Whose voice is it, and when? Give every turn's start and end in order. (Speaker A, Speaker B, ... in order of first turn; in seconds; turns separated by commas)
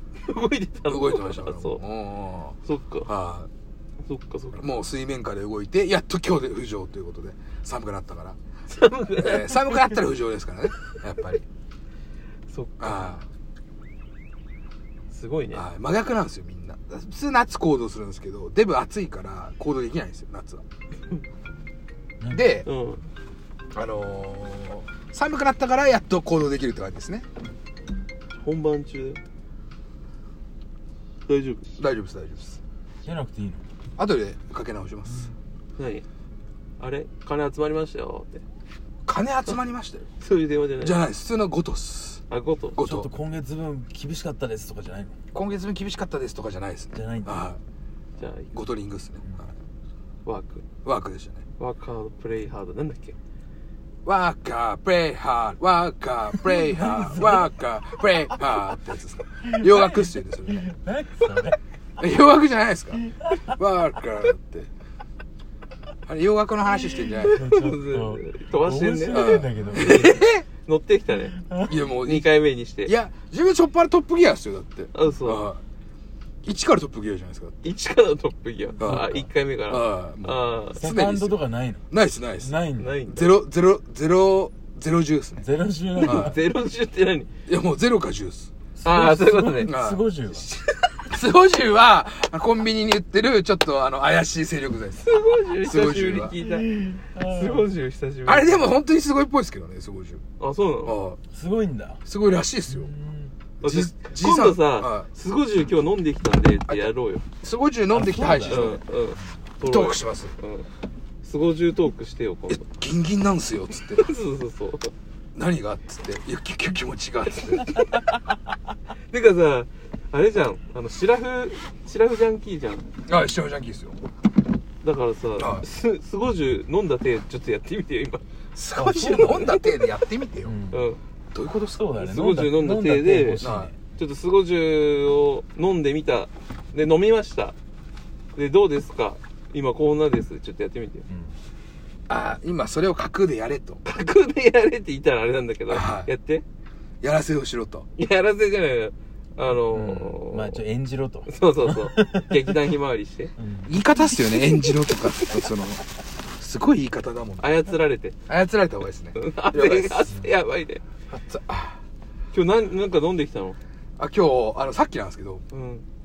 Speaker A: 0.2-1.8, Speaker B: 0.8-3.5, Speaker A: 2.6-3.1, Speaker A: 4.1-4.6, Speaker B: 4.5-8.4, Speaker A: 8.7-10.0, Speaker B: 9.2-11.4, Speaker A: 12.5-13.1, Speaker B: 12.8-13.2, Speaker A: 15.1-15.6, Speaker B: 15.5-20.6, Speaker C: 22.2-22.5, Speaker B: 22.3-22.7, Speaker A: 22.6-23.1, Speaker B: 23.7-27.2, Speaker A: 28.4-29.2, Speaker A: 31.3-31.6, Speaker B: 31.8-32.6, Speaker C: 33.0-33.6, Speaker B: 34.0-35.3, Speaker A: 35.8-36.0, Speaker A: 36.8-38.4, Speaker B: 39.0-40.1, Speaker A: 40.2-41.0, Speaker B: 40.8-42.2, Speaker A: 42.3-42.8, Speaker B: 42.8-43.1, Speaker C: 42.8-45.2, Speaker B: 45.3-47.6, Speaker C: 46.9-47.5, Speaker A: 48.2-48.5, Speaker B: 48.5-49.5, Speaker A: 50.2-50.6, Speaker B: 50.8-51.4, Speaker A: 51.6-53.1, Speaker B: 54.0-60.7, Speaker C: 56.4-57.5, Speaker C: 59.4-61.6, Speaker B: 62.0-64.7, Speaker C: 62.9-63.6, Speaker B: 66.0-67.4, Speaker C: 67.0-70.2, Speaker A: 67.2-71.4, Speaker B: 69.1-70.4, Speaker C: 71.3-71.9, Speaker B: 71.6-75.6, Speaker A: 72.0-72.9, Speaker A: 74.9-75.5, Speaker B: 76.4-77.7, Speaker A: 77.6-80.8, Speaker B: 78.8-82.5, Speaker C: 78.8-79.3, Speaker C: 80.7-83.0, Speaker A: 82.8-83.2, Speaker B: 83.0-85.4, Speaker C: 85.4-86.5, Speaker A: 85.9-87.3, Speaker B: 86.0-86.3, Speaker B: 87.5-88.5, Speaker C: 88.8-90.5, Speaker A: 88.8-89.7, Speaker B: 89.6-90.2, Speaker B: 91.1-95.1, Speaker A: 95.0-98.7, Speaker B: 95.6-96.4, Speaker C: 96.4-97.7, Speaker B: 98.2-100.2, Speaker A: 100.4-101.0, Speaker B: 100.8-101.2, Speaker C: 101.3-102.0, Speaker B: 102.0-102.9, Speaker C: 102.7-103.4, Speaker B: 103.6-105.1, Speaker A: 103.6-107.2, Speaker B: 106.7-108.8, Speaker C: 107.9-108.8, Speaker A: 108.1-110.7, Speaker B: 109.6-110.3, Speaker A: 111.2-112.7, Speaker B: 112.5-114.1, Speaker A: 113.8-114.9, Speaker B: 115.3-117.7, Speaker A: 117.4-117.8, Speaker A: 119.1-122.9, Speaker B: 123.0-124.0, Speaker A: 124.8-128.2, Speaker B: 125.4-125.7, Speaker B: 128.5-130.6, Speaker C: 128.7-129.6, Speaker A: 128.8-129.8, Speaker C: 130.4-130.9, Speaker A: 130.7-131.0, Speaker B: 131.3-131.8, Speaker C: 131.7-133.8, Speaker A: 131.9-137.5, Speaker B: 133.4-133.7, Speaker A: 138.3-141.1, Speaker C: 141.1-141.4, Speaker B: 142.1-143.8, Speaker A: 143.8-146.4, Speaker B: 145.7-146.1, Speaker B: 147.0-147.9, Speaker A: 148.0-150.6, Speaker C: 149.7-152.5, Speaker A: 151.2-153.3, Speaker C: 153.4-154.1, Speaker B: 153.7-157.6, Speaker A: 154.4-154.8, Speaker A: 157.4-158.2, Speaker B: 158.3-160.1, Speaker A: 159.1-160.8, Speaker B: 161.1-161.8, Speaker A: 162.3-163.6, Speaker B: 164.0-165.4, Speaker A: 165.5-165.8